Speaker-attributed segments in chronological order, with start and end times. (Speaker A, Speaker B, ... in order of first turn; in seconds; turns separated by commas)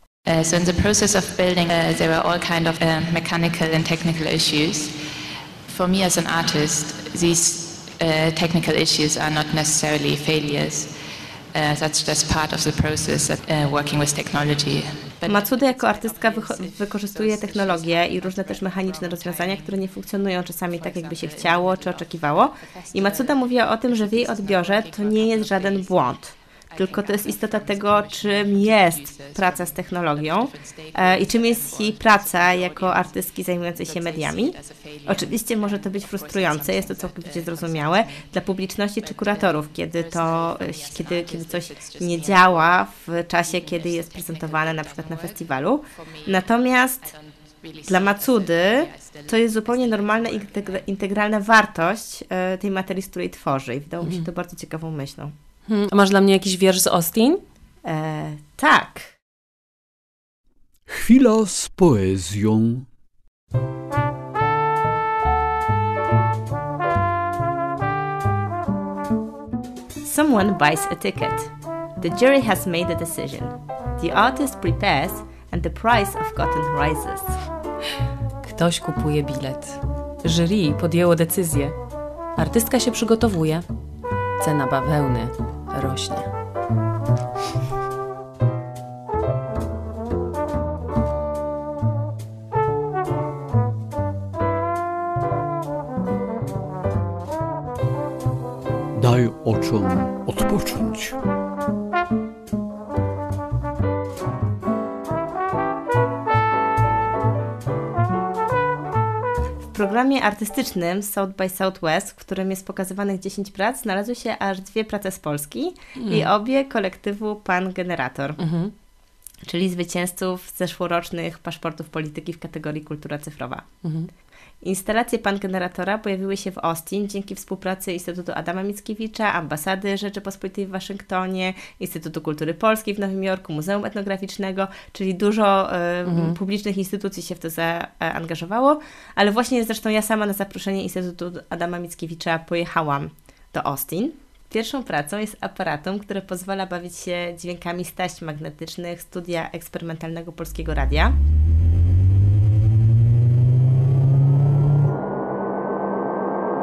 Speaker A: 0.2-4.9, Speaker A: 5.7-10.9, Speaker A: 11.5-19.8, Speaker B: 15.2-47.1, Speaker A: 20.7-38.3, Speaker A: 39.0-42.8, Speaker A: 43.4-50.9, Speaker B: 47.8-55.3, Speaker C: 54.0-54.3, Speaker C: 55.6-57.4, Speaker B: 57.8-59.1, Speaker D: 60.9-62.9, Speaker B: 70.0-77.3, Speaker C: 78.4-81.7, Speaker C: 82.4-83.6, Speaker C: 84.4-86.3, Speaker D: 98.9-101.2, Speaker B: 109.7-118.4, Speaker C: 116.0-116.3, Speaker C: 118.4-118.7, Speaker B: 119.5-123.7, Speaker C: 123.8-124.1, Speaker B: 124.6-151.2, Speaker C: 136.1-136.4